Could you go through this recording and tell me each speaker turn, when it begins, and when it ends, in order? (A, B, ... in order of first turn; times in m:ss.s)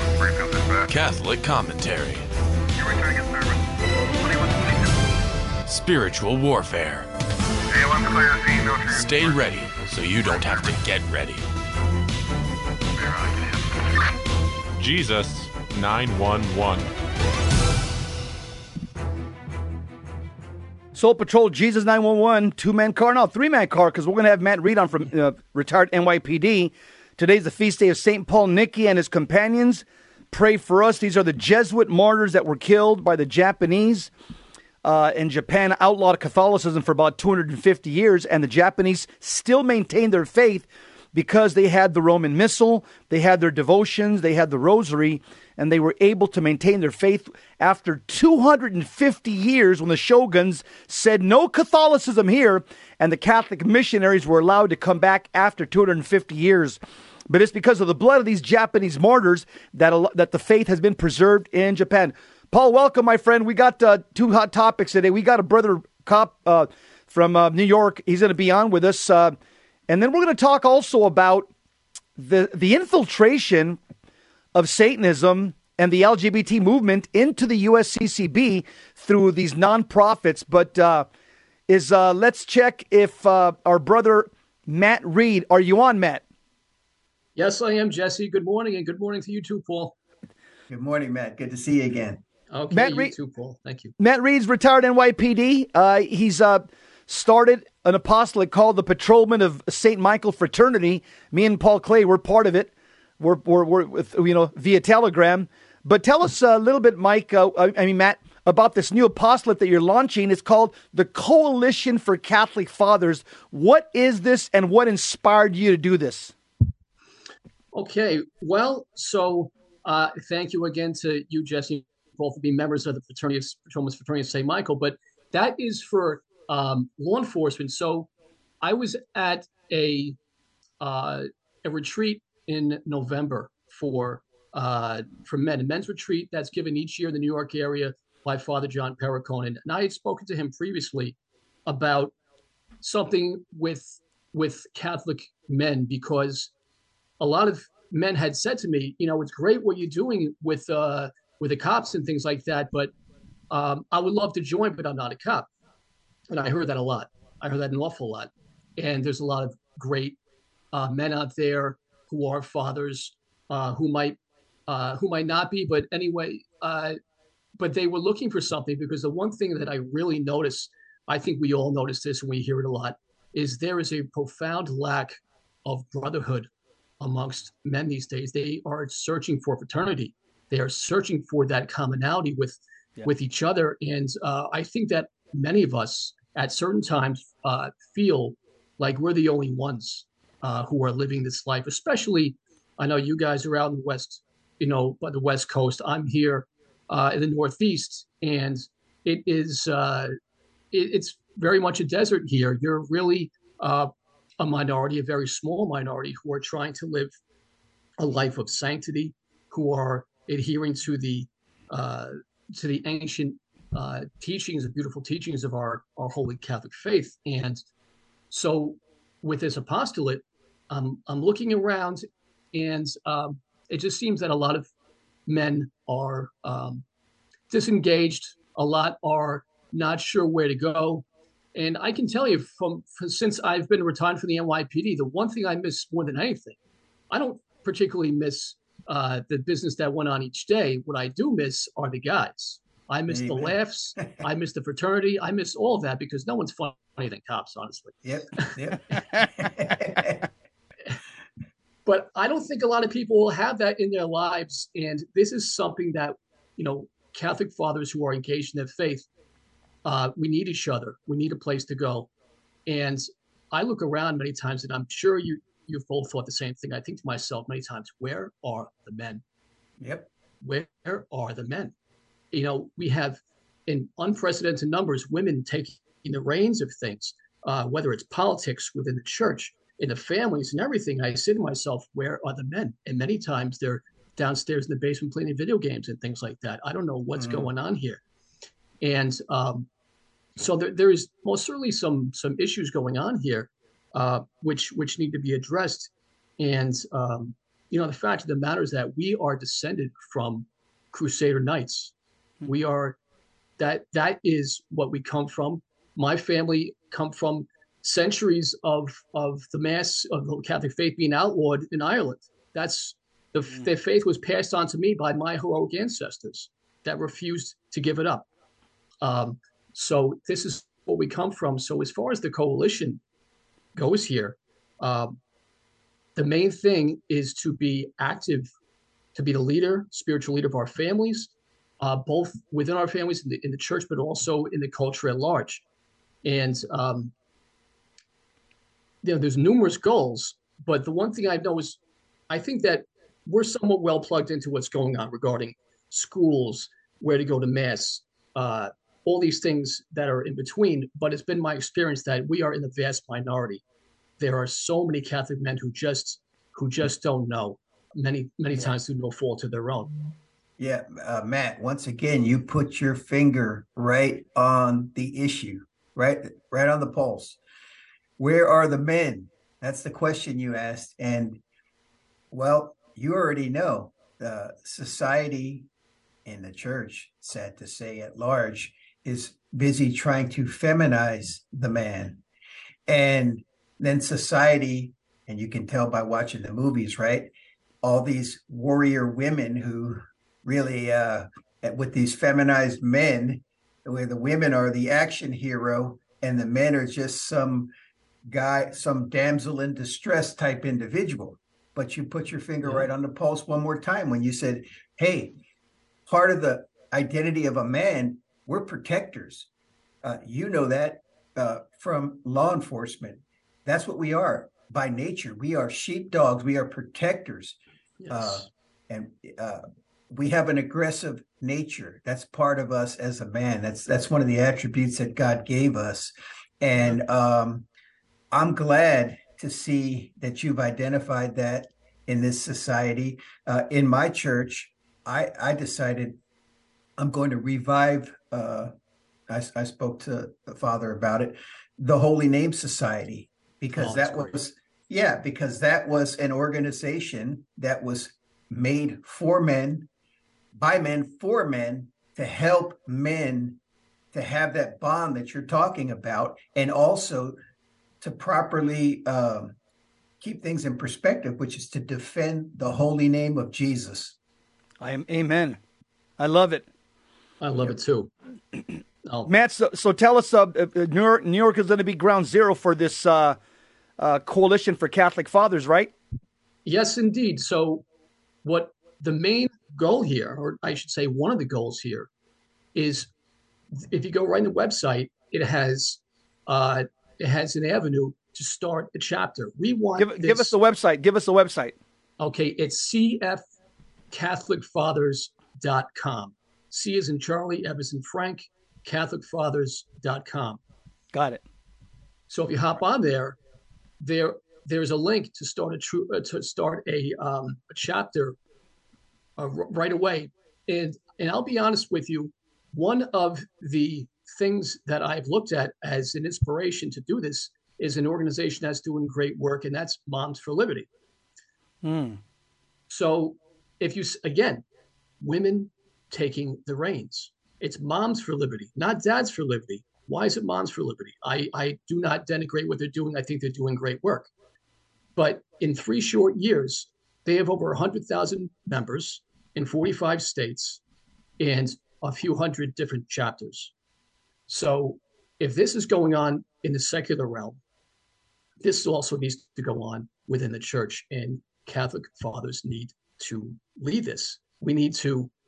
0:00.9-0:02.3 A
0:05.7-0:07.1 A
0:08.8-0:11.4 A
0:14.8-0:16.9 B
0:21.0-0:34.1 C
0:34.8-1:09.4 C
1:09.9-1:11.5 C
1:12.2-1:13.8 C
1:14.5-1:21.1 C
1:21.7-1:26.2 C
1:27.4-1:30.0 D
1:30.7-1:32.2 E
1:32.5-1:33.9 D
1:32.7-1:33.1 C
1:34.0-1:56.3 C
1:57.7-2:08.1 D
2:08.6-2:10.2 D
2:10.8-2:22.2 D
2:22.8-2:26.5 D
2:27.2-2:32.9 D
2:33.5-2:35.5 D
2:36.3-2:40.2 D
2:40.7-2:47.0 D
2:47.6-2:56.5 D
2:57.0-3:20.1 D
3:20.7-3:27.1 D
3:28.0-3:37.6 D
3:38.3-3:44.7 D
3:45.3-3:46.8 D
3:47.5-3:56.6 D
3:57.1-4:08.5 D
4:03.1-4:04.2 E
4:08.0-4:10.3 E
4:11.9-4:19.1 D
4:19.8-4:22.1 D
4:22.7-4:29.2 D
4:29.8-4:30.1 E
4:30.4-4:31.8 D
4:32.3-4:48.0 D
4:47.2-4:47.5 E
4:48.8-4:49.7 D
4:50.4-5:01.9 D
5:02.4-5:03.0 D
5:03.6-5:18.3 D
5:19.0-5:23.0 D
5:23.8-5:25.2 D
5:26.2-5:28.5 D
5:29.2-5:35.6 D
5:36.2-5:37.1 D
5:39.0-5:41.8 D
5:42.3-5:53.6 D
5:54.2-6:00.0 D
6:00.6-6:07.4 E
6:08.2-6:11.4 E
6:12.3-6:15.7 E
6:16.2-6:22.2 E
6:22.9-6:37.7 E
6:38.3-6:45.4 E
6:42.6-6:42.9 D
6:46.1-6:49.5 E
6:50.0-6:57.6 E
6:58.0-6:58.5 D
6:58.1-7:07.7 E
7:08.3-7:16.2 E
7:17.0-7:18.7 E
7:19.3-7:29.9 E
7:23.7-7:24.4 D
7:30.6-7:33.6 E
7:34.1-7:37.4 E
7:38.0-7:39.6 E
7:40.2-7:44.2 E
7:44.8-7:45.6 C
7:46.2-7:46.7 C
7:47.4-7:48.1 D
7:49.0-7:49.3 D
7:49.3-7:53.4 C
7:54.0-7:55.9 C
7:56.6-7:57.8 D
7:58.4-8:02.1 D
8:02.8-8:03.1 D
8:03.8-8:10.6 D
8:10.0-8:11.8 C
8:12.2-8:13.4 D
8:14.1-8:20.6 D
8:21.1-8:21.4 C
8:22.3-8:23.4 D
8:24.0-8:28.4 D
8:29.4-8:40.9 D
8:41.8-8:42.2 C
8:42.9-8:44.6 D
8:45.2-8:54.3 D
8:55.2-9:00.8 D
9:01.4-9:03.7 D
9:04.5-9:07.6 D
9:08.6-9:15.3 D